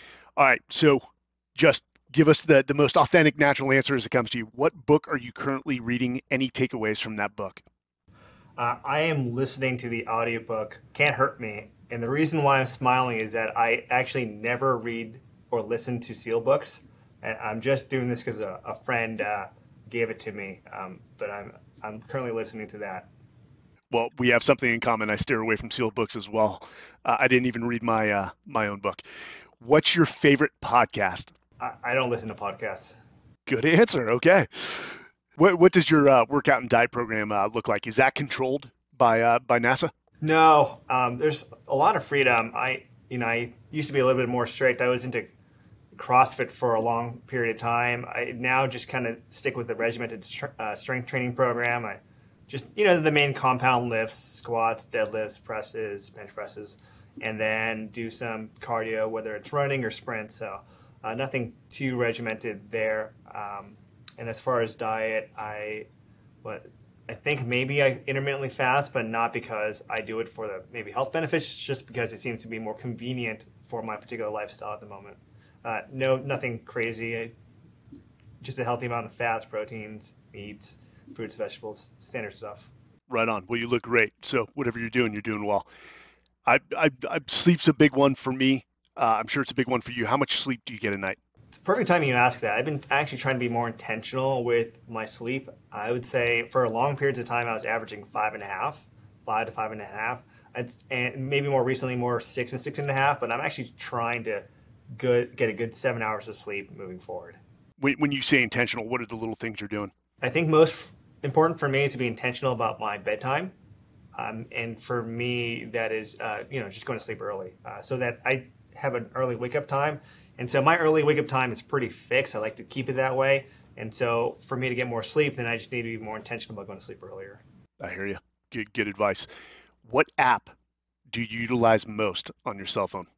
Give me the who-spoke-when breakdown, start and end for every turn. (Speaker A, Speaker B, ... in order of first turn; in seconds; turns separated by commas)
Speaker A: 0.4-1.0, Speaker A: 1.6-7.6, Speaker B: 8.6-23.1, Speaker A: 23.9-29.0, Speaker A: 29.6-31.3, Speaker B: 31.6-33.0, Speaker A: 33.5-39.9, Speaker B: 40.2-45.3, Speaker B: 45.9-65.9, Speaker B: 66.4-77.3, Speaker B: 78.4-82.7, Speaker A: 83.1-85.7, Speaker A: 86.5-91.2, Speaker B: 91.5-107.4, Speaker A: 107.8-109.9, Speaker B: 110.2-113.5, Speaker B: 114.2-127.4, Speaker A: 127.8-129.3, Speaker A: 129.8-130.5, Speaker A: 131.1-133.1